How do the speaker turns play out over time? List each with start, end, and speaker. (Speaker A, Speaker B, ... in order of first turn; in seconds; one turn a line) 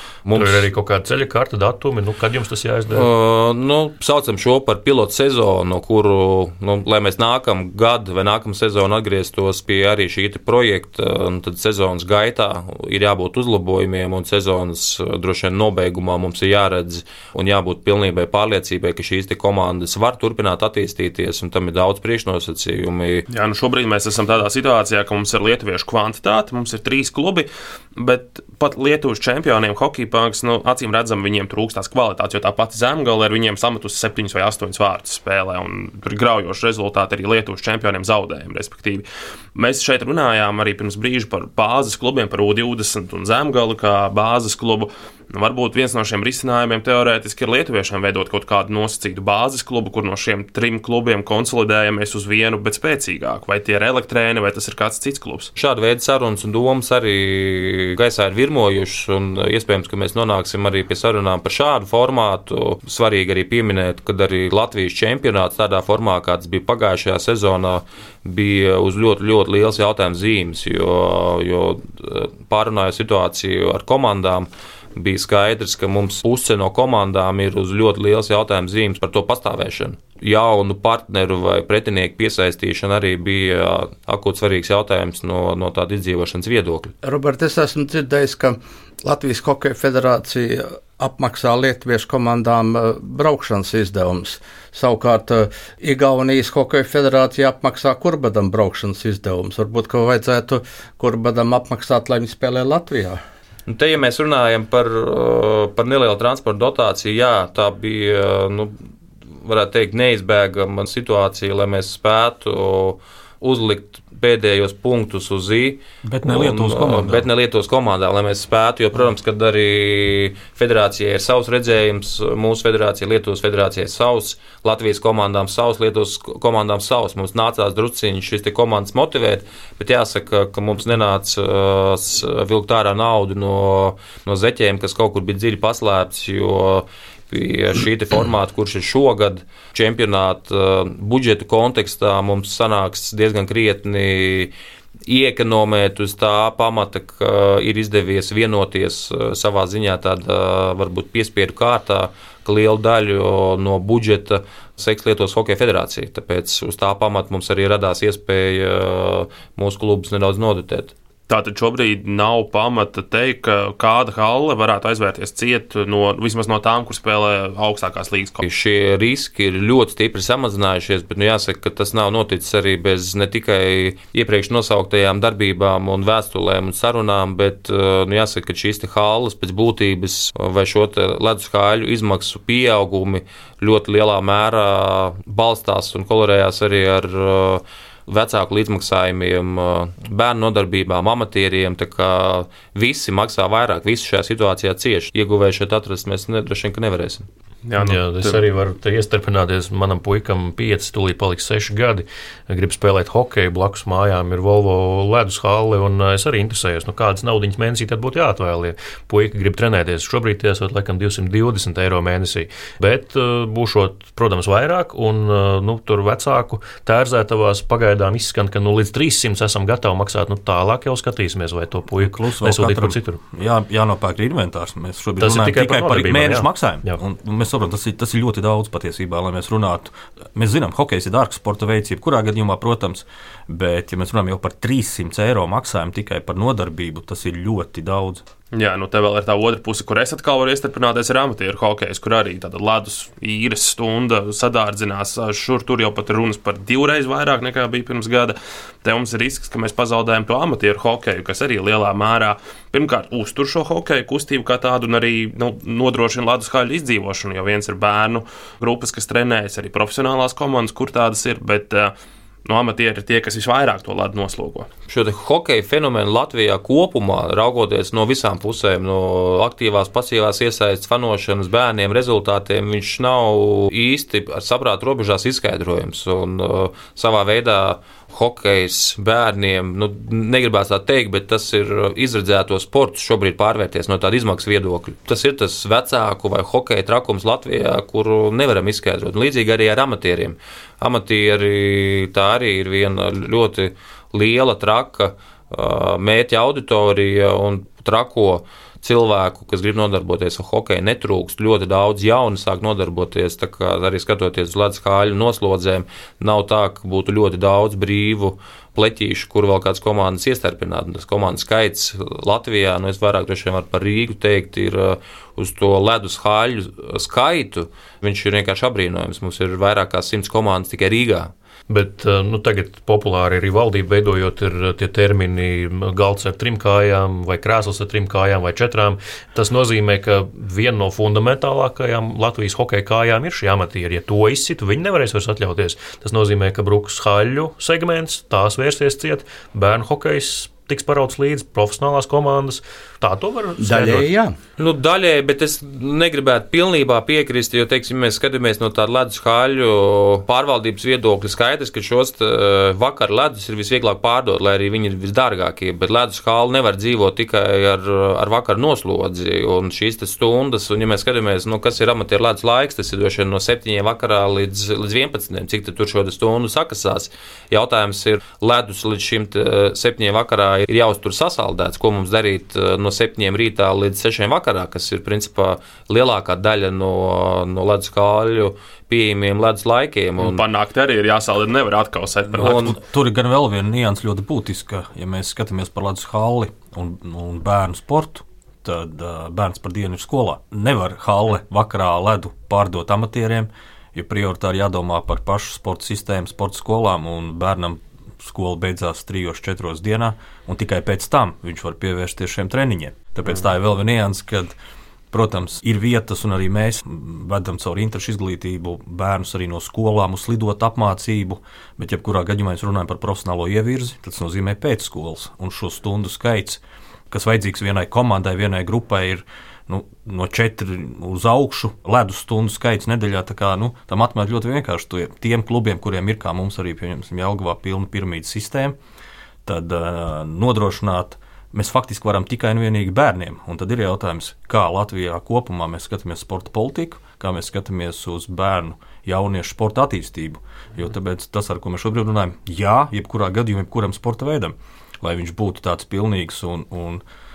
Speaker A: 0.2-0.7
Speaker B: 0.3-3.1
Speaker A: 2.9-23.2
Speaker C: 23.3-55.5
Speaker A: 55.5-86.9
Speaker D: 87.0-103.2
Speaker A: 103.7-108.8
Speaker A: 109.4-144.5
Speaker E: 116.0-117.2
Speaker A: 145.1-160.9
Speaker C: 161.3-168.4
Speaker A: 168.4-197.3
Speaker C: 197.7-198.4
Speaker B: 197.8-223.2
Speaker E: 222.0-238.2
Speaker B: 225.2-227.0
Speaker C: 238.5-261.9
Speaker C: 262.4-264.7
Speaker A: 264.9-321.3
Speaker B: 321.7-344.1
Speaker D: 343.6-344.3
Speaker A: 344.6-380.4
Speaker C: 380.2-382.8
Speaker E: 382.4-404.5
Speaker E: 405.1-428.8
Speaker E: 429.4-447.0